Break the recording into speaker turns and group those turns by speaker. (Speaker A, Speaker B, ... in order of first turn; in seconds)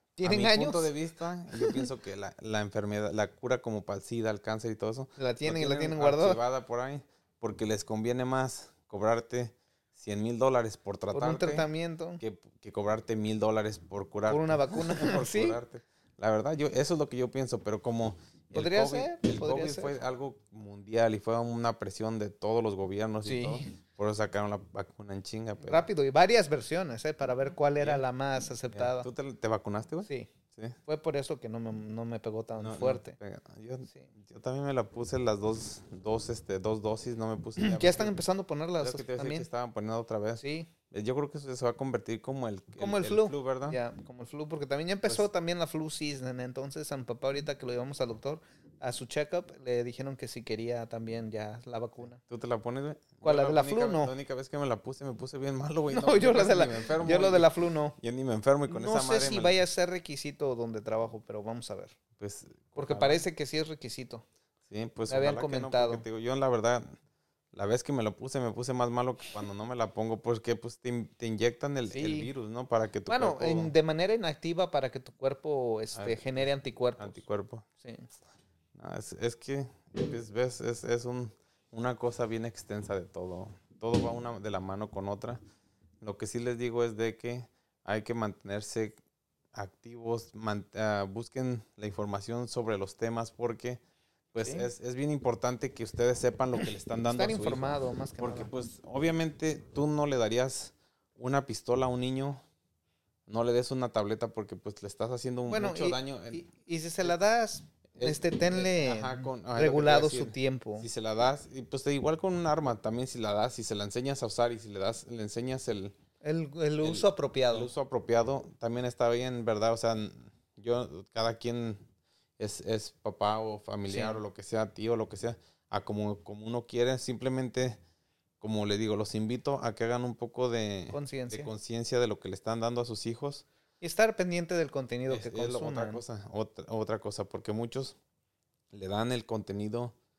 Speaker A: 0.2-0.9, 1.6-1.9, 5.2-6.4, 11.1-12.2, 14.3-15.6, 18.5-20.0, 23.2-23.7, 25.6-29.1, 30.9-33.2, 37.6-39.5, 40.4-40.7, 42.8-52.2, 53.2-54.1, 55.9-58.0, 58.7-62.0, 62.8-64.2, 65.1-66.0, 71.9-72.3, 73.1-77.2, 77.8-78.1, 94.4-94.7, 97.1-98.5, 105.5-110.9, 116.2-117.7, 123.9-124.2, 130.9-131.5, 133.8-136.0
Speaker B: 0.2-11.7, 12.2-25.9, 27.8-28.0, 28.7-30.8, 32.6-38.1, 38.8-43.8, 52.2-59.6, 62.2-63.2, 64.7-67.0, 67.5-73.7, 75.9-76.4, 77.0-77.7, 78.8-85.4, 86.0-89.0, 89.5-93.8, 94.3-102.4, 103.3-106.5, 108.0-116.0, 116.8-121.8, 122.4-127.8, 128.4-133.5, 135.1-138.0, 138.7-139.9